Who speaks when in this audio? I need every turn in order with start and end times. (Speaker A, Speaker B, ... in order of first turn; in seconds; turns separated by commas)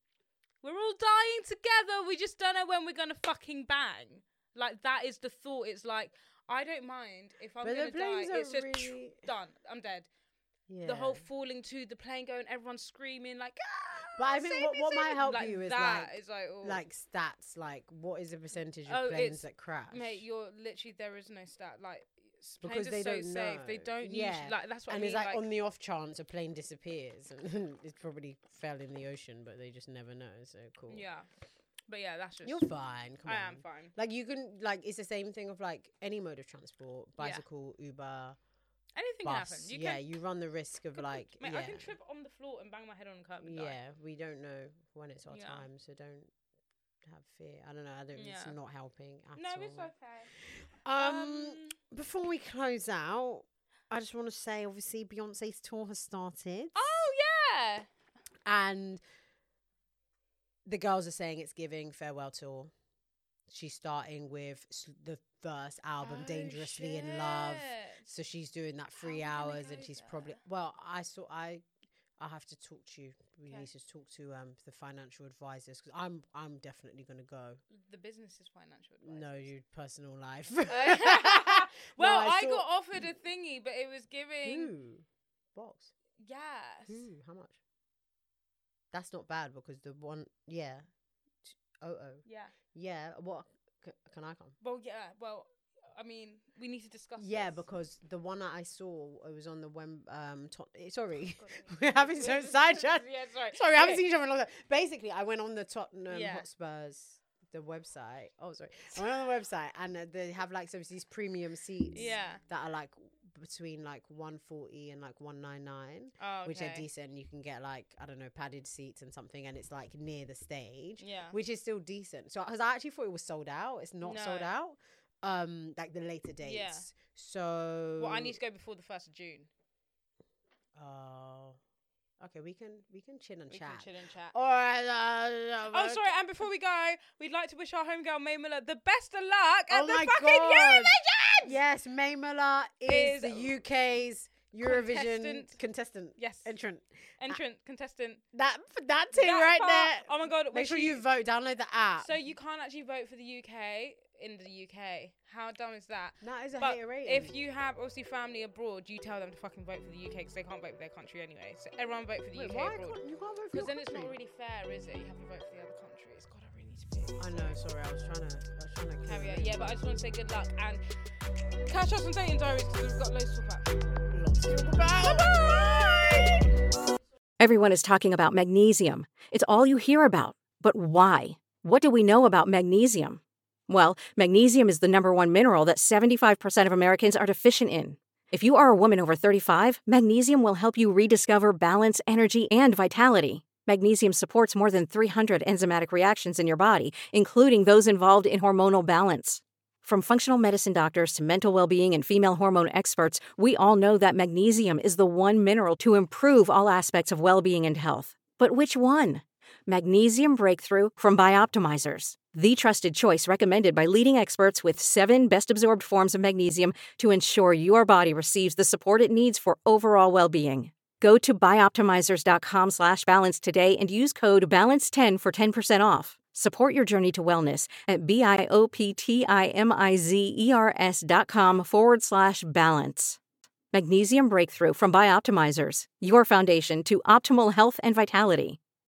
Speaker A: 0.6-10.1, Speaker B: 7.6-9.3, Speaker B: 10.7-11.2, Speaker A: 10.8-16.8, Speaker B: 14.1-20.2, Speaker A: 18.9-25.4, Speaker B: 22.6-31.1, Speaker A: 30.9-31.3, Speaker A: 31.9-32.7, Speaker B: 32.5-38.4, Speaker A: 33.2-34.0, Speaker A: 37.2-37.5, Speaker A: 39.0-40.2, Speaker B: 39.2-41.9, Speaker A: 41.0-43.8, Speaker B: 43.4-46.3, Speaker A: 45.3-45.6, Speaker B: 47.0-56.9, Speaker A: 48.1-48.6, Speaker A: 49.4-50.3, Speaker A: 51.0-51.8, Speaker A: 56.8-57.9, Speaker B: 58.5-59.0, Speaker B: 60.6-62.7, Speaker B: 63.5-71.7, Speaker A: 66.0-68.1, Speaker A: 69.0-70.4, Speaker B: 72.2-77.6, Speaker A: 73.5-73.7, Speaker A: 77.7-79.5, Speaker B: 79.0-82.7, Speaker A: 80.7-84.7, Speaker B: 84.4-85.9, Speaker A: 86.2-87.1, Speaker B: 86.9-87.6, Speaker B: 88.9-90.9, Speaker B: 91.4-94.5, Speaker A: 92.2-92.5, Speaker A: 94.6-97.6, Speaker B: 97.2-128.4, Speaker A: 101.3-104.0, Speaker A: 106.1-106.5, Speaker A: 111.9-112.4, Speaker A: 116.2-116.9, Speaker A: 121.0-121.4, Speaker A: 124.0-124.5, Speaker A: 126.4-126.9, Speaker A: 128.0-129.5, Speaker B: 130.8-131.6, Speaker B: 132.2-136.1, Speaker A: 133.5-134.3, Speaker A: 135.7-141.5, Speaker B: 139.7-147.4, Speaker A: 142.9-143.6, Speaker A: 144.6-145.6, Speaker A: 146.2-146.6, Speaker A: 147.2-148.2, Speaker B: 148.3-152.2, Speaker A: 149.1-151.0, Speaker A: 152.0-163.0, Speaker B: 156.2-157.4, Speaker B: 162.3-164.2, Speaker A: 163.5-167.3, Speaker B: 167.2-169.8, Speaker A: 169.0-170.9, Speaker A: 171.7-173.8, Speaker B: 174.1-176.6, Speaker C: 177.4-233.2, Speaker C: 233.7-238.6